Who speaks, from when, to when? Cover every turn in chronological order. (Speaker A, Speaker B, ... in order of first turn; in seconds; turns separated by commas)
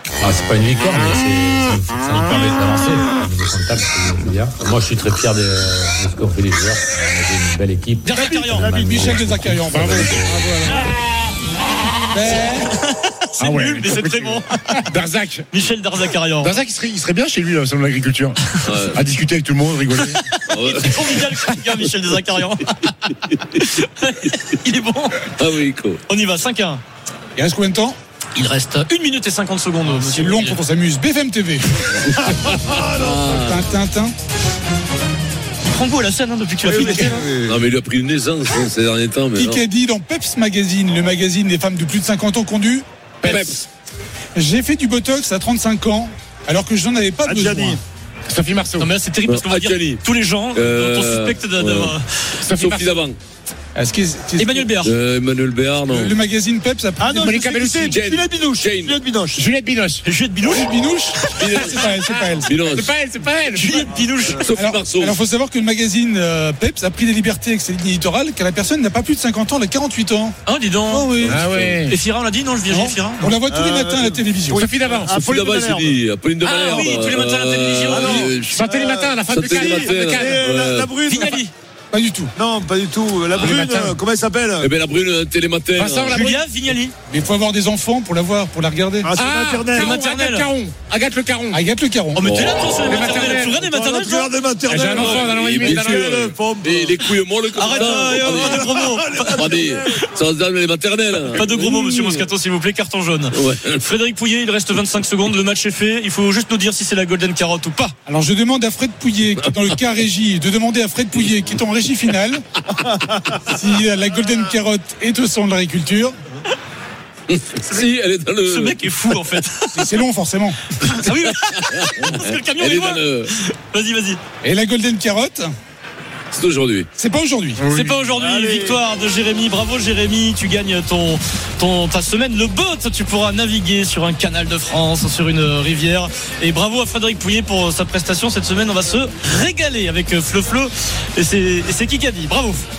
Speaker A: 0.2-10.4, Speaker B: 8.0-8.7, Speaker C: 8.2-9.1, Speaker D: 8.7-10.8, Speaker E: 9.7-10.3, Speaker D: 12.1-12.7, Speaker B: 12.3-14.5, Speaker E: 13.4-15.5, Speaker B: 15.5-16.6, Speaker E: 16.4-20.2, Speaker F: 18.6-19.1, Speaker B: 20.0-25.3, Speaker F: 20.5-21.2, Speaker F: 25.4-26.0, Speaker B: 26.1-26.8, Speaker D: 27.4-28.0, Speaker B: 28.4-30.6, Speaker D: 29.9-31.9, Speaker F: 32.0-33.6, Speaker C: 32.7-33.2, Speaker D: 33.3-34.1, Speaker B: 35.6-37.3, Speaker C: 36.6-37.6, Speaker D: 36.8-37.1, Speaker F: 37.5-39.6, Speaker D: 39.4-42.9, Speaker E: 43.2-43.5, Speaker F: 43.2-43.6, Speaker D: 44.4-47.8, Speaker C: 47.2-47.8, Speaker E: 48.3-48.9, Speaker B: 48.8-52.0, Speaker F: 49.3-50.0, Speaker F: 50.5-51.9, Speaker E: 52.4-53.0, Speaker F: 52.5-53.2, Speaker D: 53.8-54.7, Speaker B: 54.4-54.9, Speaker F: 54.8-56.1, Speaker D: 55.9-57.4, Speaker C: 57.0-59.5, Speaker E: 57.2-58.0, Speaker F: 57.9-59.0, Speaker E: 59.4-60.0, Speaker B: 60.0-61.7, Speaker D: 60.4-62.6, Speaker F: 61.4-61.9, Speaker E: 61.5-61.8, Speaker F: 62.4-62.9, Speaker E: 62.6-63.9, Speaker B: 63.5-64.6, Speaker F: 64.3-65.2, Speaker D: 64.6-70.4, Speaker B: 70.5-73.3, Speaker D: 70.9-71.5, Speaker E: 71.3-72.0, Speaker F: 71.4-71.8, Speaker D: 72.7-74.6, Speaker C: 73.5-76.0, Speaker E: 74.5-75.1, Speaker F: 75.1-78.7, Speaker B: 76.4-78.4, Speaker C: 77.9-81.4, Speaker E: 78.4-80.5, Speaker F: 79.3-81.2, Speaker B: 81.1-81.5, Speaker D: 81.9-82.3, Speaker C: 82.4-84.7, Speaker F: 83.3-83.7, Speaker E: 83.4-84.0, Speaker F: 84.6-86.3, Speaker E: 85.8-86.3, Speaker B: 86.1-86.9, Speaker C: 86.1-86.4, Speaker D: 87.1-89.1, Speaker C: 89.0-89.9, Speaker E: 89.1-91.6, Speaker B: 89.8-90.5, Speaker D: 91.5-92.3, Speaker B: 92.2-94.3, Speaker F: 92.2-92.8, Speaker E: 92.9-93.6, Speaker C: 93.6-97.1, Speaker E: 94.7-96.1, Speaker F: 95.0-102.3, Speaker B: 97.5-99.6, Speaker C: 97.7-100.0, Speaker B: 101.3-107.9, Speaker F: 103.3-103.8, Speaker D: 108.1-112.4, Speaker F: 109.4-109.8, Speaker D: 113.4-116.2, Speaker F: 117.3-118.9, Speaker B: 118.5-119.9, Speaker D: 119.7-120.7, Speaker B: 120.8-124.2, Speaker F: 121.9-123.3, Speaker D: 124.4-125.5, Speaker F: 126.3-126.9, Speaker D: 127.0-127.7, Speaker B: 127.6-142.7, Speaker C: 128.1-128.8